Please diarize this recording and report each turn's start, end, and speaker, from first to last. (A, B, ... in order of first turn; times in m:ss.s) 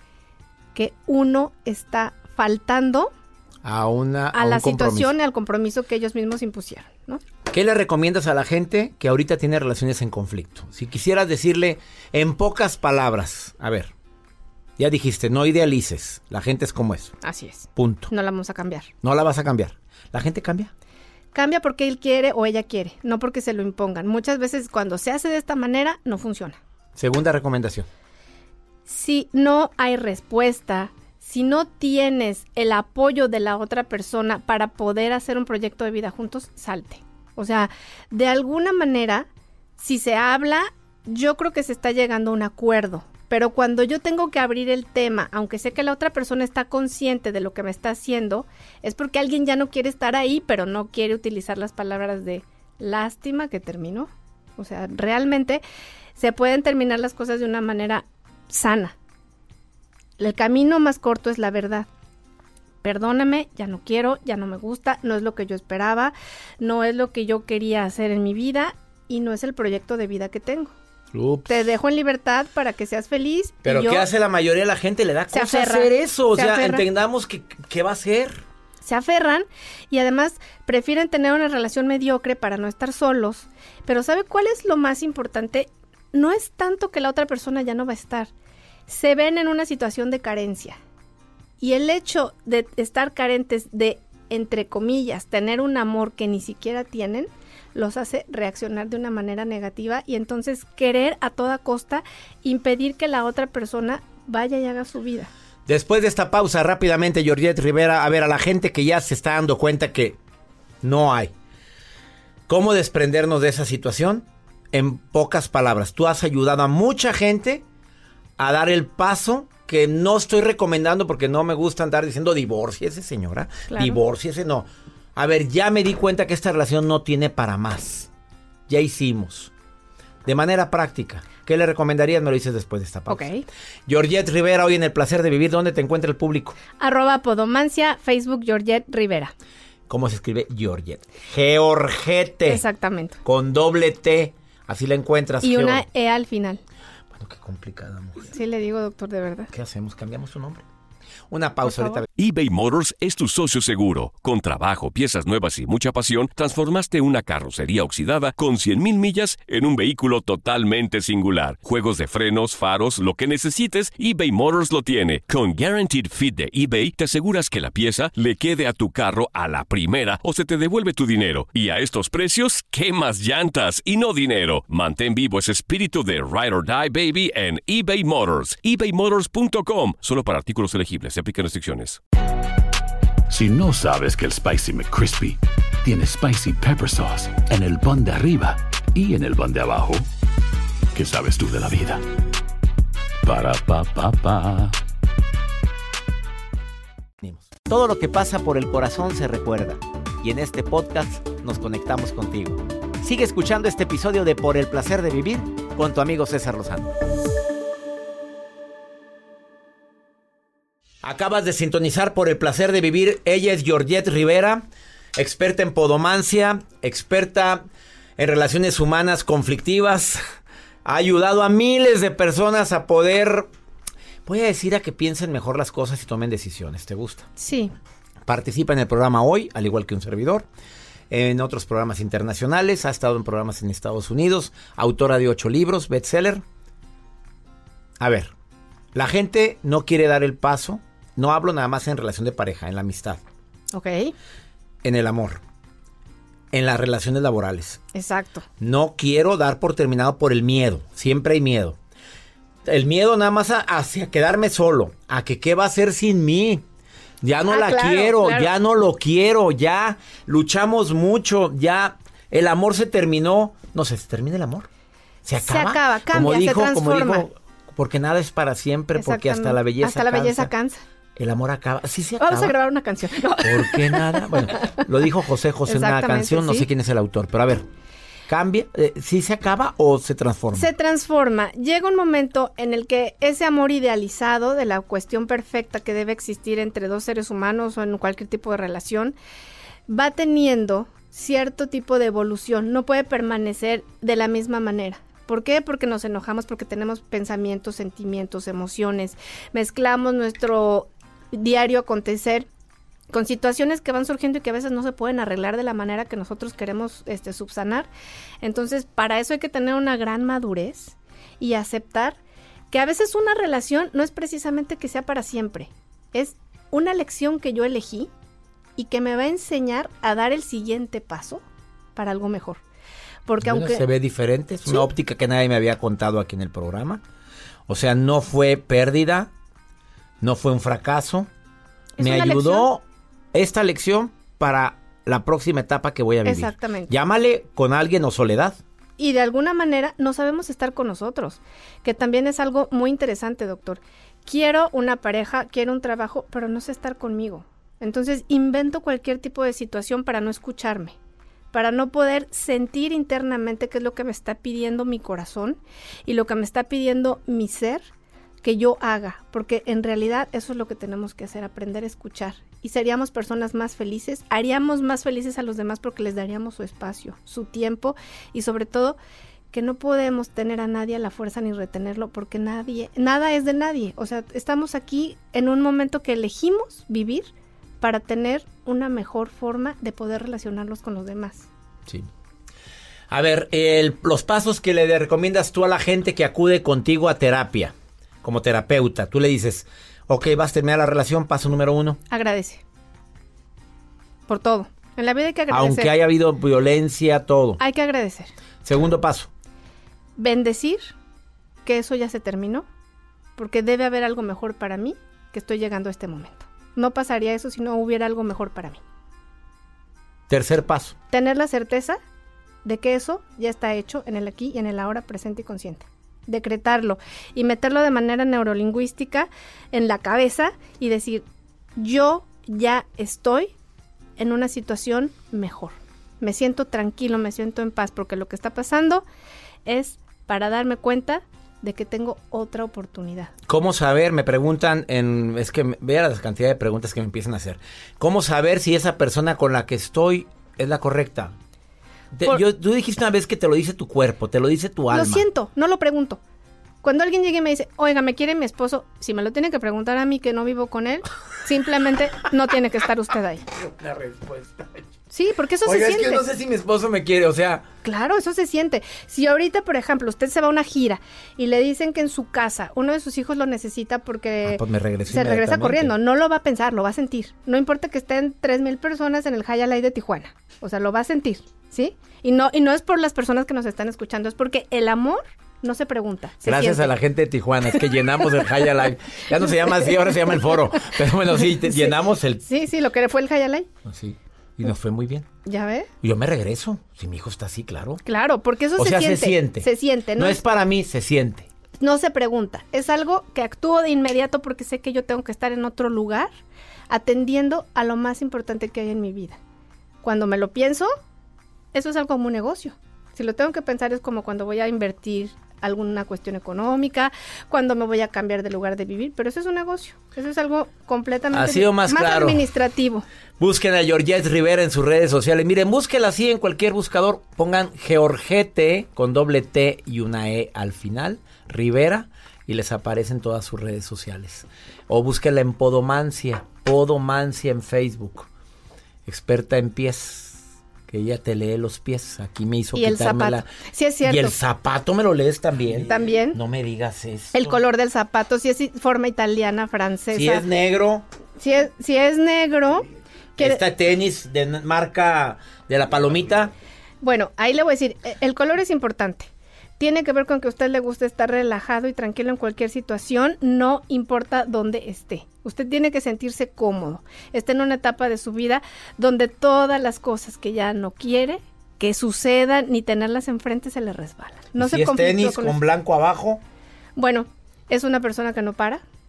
0:00.7-0:03.1 A
0:03.6-0:05.1 B
0:04.3-0:07.2 A
0:07.5-0:13.9 B
0:14.8-0:17.1 B
0:17.2-0:18.9 A
0:17.8-0:18.1 B
0:19.0-0:20.7 B
0:21.3-0:26.6 A
0:27.0-0:27.9 B
0:28.8-0:55.6 A
0:56.2-0:58.9 A
1:00.2-1:01.9 A
1:02.8-1:10.7 A
1:11.1-1:11.5 B
1:11.5-1:14.1 A
1:13.6-1:18.4 B
1:15.3-1:16.8 A
1:18.8-1:28.3 A
1:28.9-1:30.8 A
1:31.6-1:45.3 A
1:45.6-1:50.2 B
1:50.8-1:51.3 B
1:52.5-1:57.6 B
1:58.4-2:08.1 B
2:03.7-2:04.0 A
2:08.7-2:09.5 B
2:10.2-2:13.3 B
2:13.1-2:13.4 A
2:13.9-2:16.6 B
2:16.8-2:19.3 A
2:19.9-2:22.6 B
2:22.5-2:23.2 A
2:23.2-2:25.8 B
2:25.4-2:26.6 A
2:27.1-2:28.4 B
2:28.3-2:29.5 A
2:29.5-2:30.6 B
2:31.3-2:32.0 B
2:31.6-2:32.0 A
2:32.2-3:02.0 C
3:03.3-3:10.0 D
3:10.9-3:12.0 D
3:13.2-3:14.8 D
3:17.2-3:26.9 B
3:31.0-3:40.2 B
3:40.8-3:43.5 B
3:44.2-3:47.3 B
3:47.4-3:47.7 A
3:48.3-3:50.5 B
3:51.1-3:56.4 B
3:58.0-3:58.3 B
3:58.9-4:03.2 B
4:03.7-4:04.1 A
4:04.8-4:05.4 B
4:06.5-4:07.8 B
4:07.9-4:08.4 A
4:08.6-4:11.8 B
4:12.6-4:16.6 B
4:17.2-4:24.7 B
4:17.5-4:18.5 A
4:25.2-4:30.5 B
4:25.4-4:27.3 A
4:28.9-4:30.8 A
4:31.2-4:32.6 B
4:32.2-4:34.8 A
4:33.4-4:37.6 B
4:35.7-4:36.7 A
4:38.3-4:40.7 B
4:40.6-4:49.1 A
4:49.9-5:02.5 A
5:03.1-5:07.9 A
5:08.4-5:12.2 A
5:12.7-5:18.1 A
5:18.8-5:21.4 A
5:21.9-5:22.6 A
5:23.2-5:23.8 A
5:23.4-5:27.0 B
5:27.7-5:29.3 B
5:30.2-5:31.3 B
5:32.0-5:32.7 A
5:32.0-5:38.6 B
5:36.2-5:36.9 A
5:39.0-5:51.0 A
5:51.5-5:57.9 A
5:58.4-6:09.0 A
6:09.5-6:17.3 A
6:17.8-6:21.5 A
6:23.1-6:32.0 B
6:32.1-6:32.6 A
6:34.3-6:35.9 A
6:35.5-6:37.6 B
6:37.6-6:38.3 A
6:38.6-6:39.3 B
6:40.2-6:40.9 A
6:41.6-6:42.6 A
6:43.4-6:48.8 A
6:50.3-6:51.0 B
6:51.1-6:52.0 A
6:52.6-7:01.2 A
7:01.8-7:03.5 A
7:04.2-7:09.0 A
7:09.6-7:13.3 A
7:13.5-7:21.3 B
7:22.1-7:25.2 B
7:24.9-7:26.2 A
7:26.8-7:33.4 A
7:33.5-7:34.9 B
7:35.1-7:36.2 A
7:35.6-7:37.7 B
7:37.8-7:56.9 A
7:44.4-7:45.9 B
7:56.4-8:02.4 B
8:01.7-8:03.7 A
8:03.8-8:05.3 B
8:05.4-8:05.9 A
8:06.0-8:08.0 B
8:08.0-8:10.4 A
8:08.8-8:11.5 B
8:11.8-8:16.3 A
8:16.9-8:19.4 A
8:20.0-8:20.9 A
8:21.7-8:33.0 A
8:31.3-8:32.4 B
8:33.4-8:48.3 B
8:49.0-8:53.4 B
8:52.7-8:54.3 A
8:54.0-8:57.6 B
8:55.8-8:56.4 A
8:57.3-9:00.4 A
9:00.1-9:01.1 B
9:01.4-9:03.6 A
9:03.4-9:06.5 B
9:07.0-9:25.6 A
9:24.6-9:26.4 B
9:27.0-9:28.8 A